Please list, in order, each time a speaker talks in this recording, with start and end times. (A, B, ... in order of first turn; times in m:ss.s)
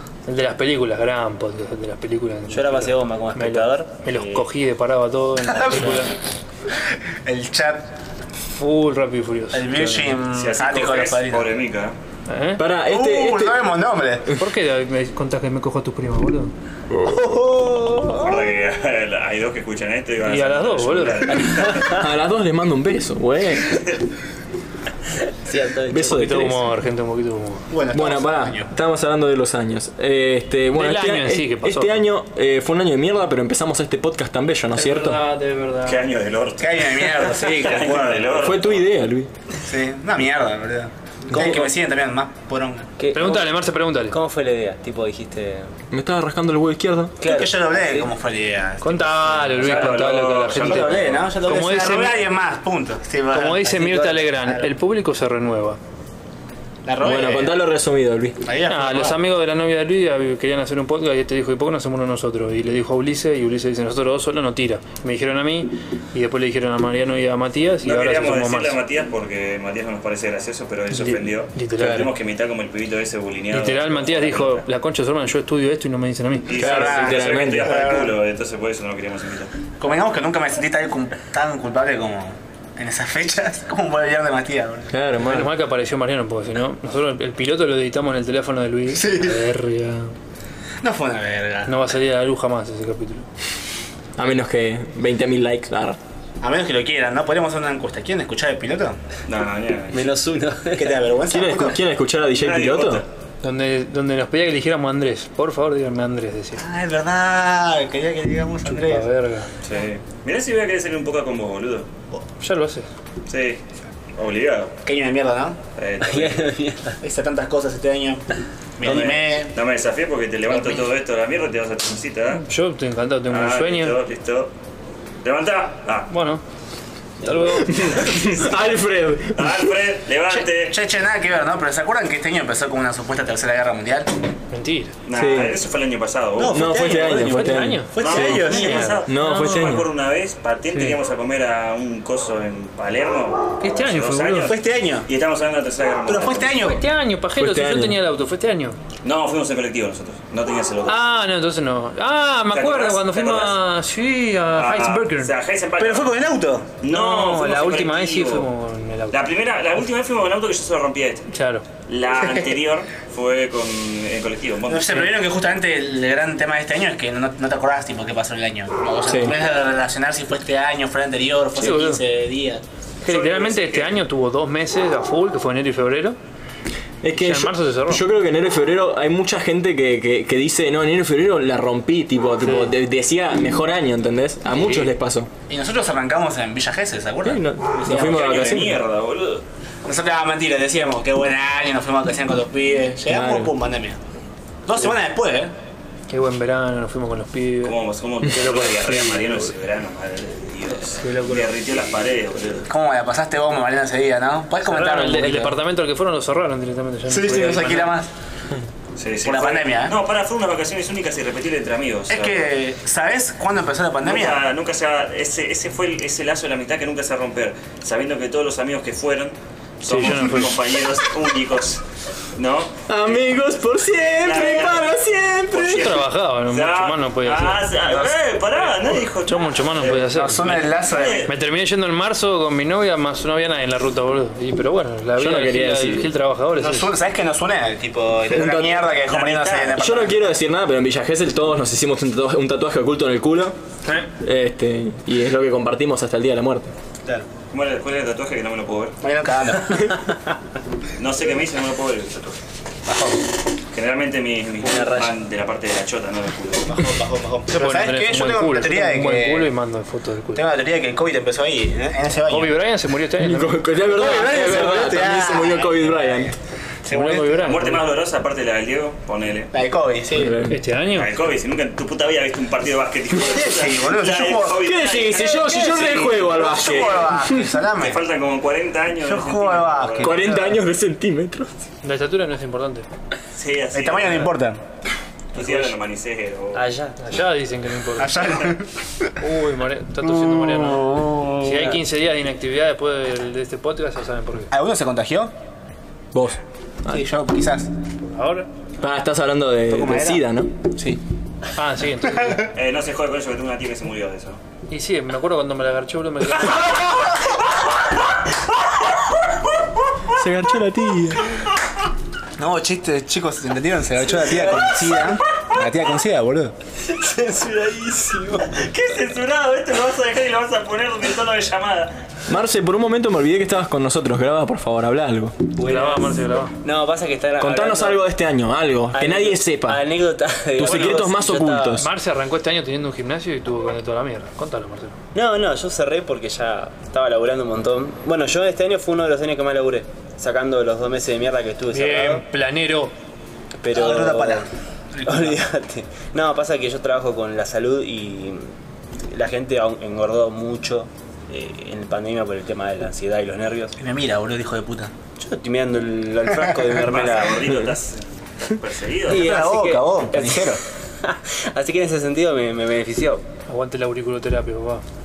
0:00.3-0:06.2 A
0:02.5-0:04.5 B
0:05.4-0:06.1 C
0:07.2-0:07.9 C
0:08.5-0:10.1 A
0:09.5-0:11.5 C
0:10.3-0:12.0 D
0:12.3-0:12.6 A
0:12.6-0:13.6 E
0:12.8-0:14.3 C
0:14.4-0:16.5 A
0:17.0-0:18.3 C
0:18.1-0:21.9 D
0:20.2-0:21.6 A
0:21.7-0:23.8 E
0:25.5-0:26.2 B
0:25.9-0:26.6 E
0:26.0-0:27.7 A
0:27.7-0:28.7 C
0:27.9-0:35.2 E
0:30.7-0:32.0 A
0:34.8-0:36.1 A
0:35.8-0:38.8 D
0:36.6-0:38.4 C
0:38.4-0:39.3 E
0:39.6-0:42.9 C
0:41.3-0:41.6 E
0:43.0-0:43.6 B
0:43.1-0:44.2 A
0:44.1-0:45.7 B
0:45.9-0:47.2 E
0:47.2-0:48.1 B
0:47.2-0:49.9 C
0:48.8-0:52.2 A
0:49.5-0:51.3 D
0:50.6-0:54.7 C
0:53.3-0:55.8 A
0:53.7-0:54.2 B
0:56.8-0:57.5 C
0:57.0-0:58.4 E
0:58.4-0:59.2 C
0:58.7-1:08.8 A
1:07.8-1:14.6 D
1:10.9-1:12.1 A
1:11.8-1:12.1 E
1:13.5-1:16.5 A
1:16.5-1:19.5 D
1:16.6-1:17.8 E
1:16.6-1:18.2 C
1:19.8-1:24.9 C
1:24.9-1:25.5 E
1:25.2-1:30.1 A
1:28.9-1:29.4 C
1:30.8-1:31.9 C
1:31.7-1:33.2 A
1:34.2-1:36.0 E
1:36.4-1:39.0 C
1:39.3-1:40.1 D
1:39.9-1:41.1 B
1:40.8-1:41.8 C
1:41.2-1:43.0 E
1:42.4-1:43.1 D
1:43.4-1:46.6 A
1:46.6-1:49.1 C
1:48.6-1:49.5 A
1:49.6-1:51.9 D
1:52.4-1:52.9 A
1:53.3-1:53.6 D
1:54.2-1:54.8 D
1:54.8-1:55.6 C
1:55.8-1:56.5 D
1:56.0-1:57.0 B
1:57.0-1:58.2 C
1:58.8-1:59.6 C
1:58.8-2:02.5 D
2:02.4-2:04.0 A
2:03.3-2:04.5 D
2:05.2-2:06.1 D
2:06.1-2:06.4 A
2:07.2-2:07.9 A
2:07.5-2:09.7 E
2:09.4-2:10.8 D
2:10.3-2:14.1 C
2:14.5-2:15.0 A
2:15.0-2:16.9 D
2:15.1-2:15.6 E
2:16.4-2:18.9 C
2:16.5-2:19.9 E
2:17.1-2:19.7 A
2:18.0-2:26.6 D
2:20.7-2:21.0 A
2:23.6-2:24.5 A
2:24.5-2:25.1 C
2:26.1-2:26.8 C
2:26.6-2:28.8 A
2:27.4-2:28.0 E
2:29.0-2:31.0 D
2:30.9-2:35.3 A
2:32.5-2:33.6 D
2:34.5-2:36.1 D
2:35.8-2:36.7 C
2:36.8-2:38.5 D
2:36.8-2:39.2 A
2:39.1-2:41.3 D
2:41.3-2:41.6 A
2:41.9-2:45.1 D
2:44.7-2:52.6 C
2:49.1-2:49.3 E
2:51.6-2:52.0 A
2:53.0-2:56.2 A
2:53.0-2:54.0 D
2:57.0-3:05.3 E
2:57.1-2:58.1 A
3:02.4-3:02.7 A
3:04.5-3:04.9 A
3:05.5-3:08.1 C
3:07.2-3:08.8 E
3:07.8-3:09.4 D
3:09.8-3:14.0 C
3:13.1-3:13.5 E
3:14.7-3:15.5 C
3:16.1-3:19.5 A
3:17.6-3:22.7 D
3:20.9-3:21.5 A
3:22.7-3:25.6 C
3:24.6-3:27.9 A
3:27.1-3:28.1 C
3:29.0-3:32.4 D
3:29.2-3:30.0 C
3:32.1-3:34.4 C
3:34.0-3:41.8 D
3:39.9-3:40.6 A
3:42.4-3:42.8 D
3:42.9-3:46.0 E
3:44.2-3:44.9 D
3:45.5-3:51.3 D
3:45.7-3:47.7 A
3:48.9-3:50.6 A
3:49.8-3:51.3 C
3:51.3-3:56.9 A
3:55.2-3:56.1 E
3:56.6-4:00.1 C
3:58.3-3:58.9 E
3:59.1-3:59.8 D
3:59.8-4:03.6 E
4:04.2-4:06.7 E
4:07.5-4:09.0 D
4:09.0-4:10.2 C
4:11.0-4:12.4 D
4:12.9-4:13.3 C
4:13.7-4:16.8 D
4:16.7-4:19.5 C
4:17.5-4:20.4 A
4:20.4-4:22.6 C
4:22.3-4:24.6 A
4:23.2-4:26.3 E
4:23.9-4:26.3 C
4:26.8-4:27.4 C
4:26.9-4:27.8 A
4:27.4-4:29.5 D
4:29.5-4:30.4 C
4:30.1-4:30.6 E
4:30.5-4:31.1 A
4:30.9-4:36.7 D
4:33.2-4:38.0 C
4:34.6-4:37.6 E
4:37.8-4:40.2 D
4:39.0-4:40.6 C
4:40.0-4:41.6 E
4:41.8-4:42.9 A
4:43.4-4:44.3 D
4:43.7-4:44.6 C
4:45.3-4:46.7 D
4:45.4-4:45.7 C
4:46.5-4:47.0 B
4:47.0-4:48.4 A
4:48.0-4:49.1 C
4:49.2-4:54.5 A
4:50.1-4:51.8 C
4:54.5-4:55.3 C
4:56.1-4:56.4 E
4:56.9-4:57.7 C
4:58.1-4:58.5 A
4:58.8-5:00.5 E
4:59.7-5:01.0 C
5:01.6-5:02.4 A
5:02.1-5:02.5 C
5:02.5-5:04.4 D
5:04.7-5:06.9 A
5:10.1-5:11.3 E
5:12.4-5:16.5 C
5:14.2-5:15.6 D
5:16.8-5:18.5 B
5:18.5-5:22.0 D
5:22.3-5:25.4 E
5:25.6-5:28.0 B
5:25.6-5:26.5 A
5:27.4-5:29.8 E
5:28.9-5:31.9 B
5:30.6-5:31.9 E
5:30.6-5:31.1 A
5:31.8-5:35.0 A
5:35.1-5:42.2 B
5:41.7-5:42.9 A
5:43.6-5:44.5 B
5:43.7-5:45.4 C
5:45.1-5:48.5 B
5:49.1-5:53.8 B
5:53.8-5:54.9 C
5:55.2-5:57.4 B
5:56.7-5:59.3 D
5:59.1-6:03.3 B
5:59.1-6:00.6 C
6:03.5-6:04.8 A